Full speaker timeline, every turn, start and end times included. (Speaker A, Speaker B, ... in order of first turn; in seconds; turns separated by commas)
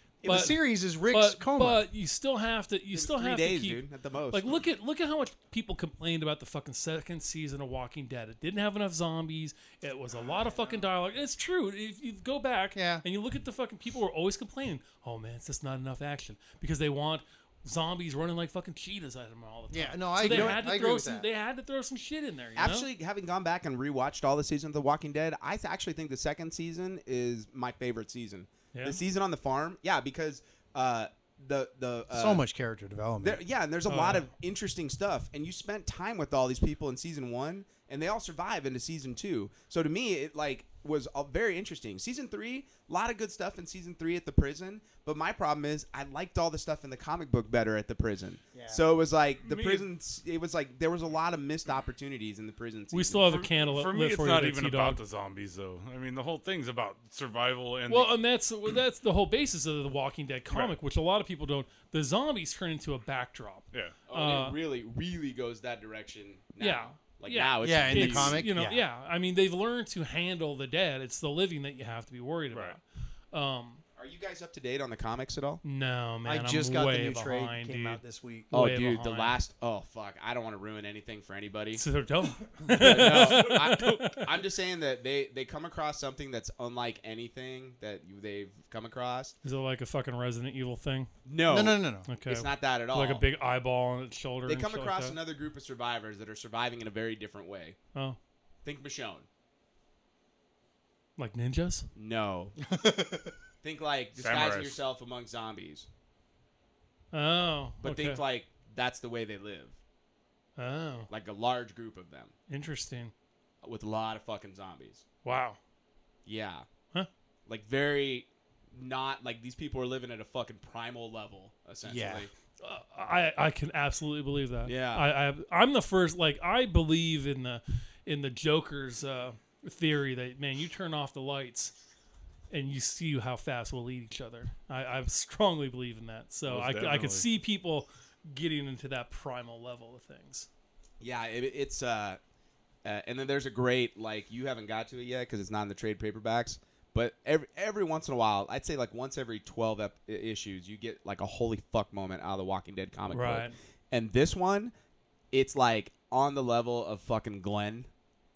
Speaker A: 0.2-0.6, Speaker B: 0.2-1.8, Speaker C: 0.3-22.9, Speaker A: 2.9-4.6, Speaker B: 12.8-13.0, Speaker B: 19.7-21.3, Speaker A: 20.2-20.6, Speaker A: 22.6-32.4, Speaker C: 28.7-29.0, Speaker B: 32.1-33.4, Speaker A: 33.2-53.3, Speaker C: 33.9-34.3, Speaker B: 48.5-48.8, Speaker D: 49.4-49.9, Speaker C: 52.9-55.0, Speaker D: 53.3-58.1, Speaker C: 57.9-64.6, Speaker D: 63.7-64.0, Speaker A: 64.1-68.4, Speaker C: 66.6-72.8, Speaker B: 67.6-68.8, Speaker C: 73.3-73.8, Speaker A: 74.0-75.6, Speaker C: 75.6-78.0, Speaker B: 76.2-78.5, Speaker C: 78.5-79.3, Speaker A: 78.5-81.8, Speaker C: 81.8-84.3, Speaker A: 82.7-89.3, Speaker D: 83.1-83.5, Speaker C: 89.4-91.1, Speaker A: 91.3-93.2, Speaker B: 91.5-92.1, Speaker C: 92.1-95.2, Speaker A: 94.5-97.8, Speaker A: 98.6-99.3, Speaker C: 101.2-101.9, Speaker A: 102.0-102.6, Speaker B: 102.7-103.3, Speaker A: 103.6-105.9, Speaker D: 104.2-104.8, Speaker C: 107.1-108.2, Speaker A: 107.8-109.7, Speaker C: 110.6-111.1, Speaker A: 111.1-112.3, Speaker C: 112.5-113.1, Speaker A: 113.6-115.0, Speaker C: 115.2-115.6, Speaker A: 116.3-116.7, Speaker A: 117.5-122.3, Speaker B: 121.8-122.3, Speaker C: 122.6-131.7, Speaker A: 124.7-125.1, Speaker C: 132.5-140.5, Speaker D: 136.5-137.3, Speaker A: 141.0-142.2, Speaker A: 142.8-154.7, Speaker C: 153.1-153.6, Speaker A: 155.3-157.9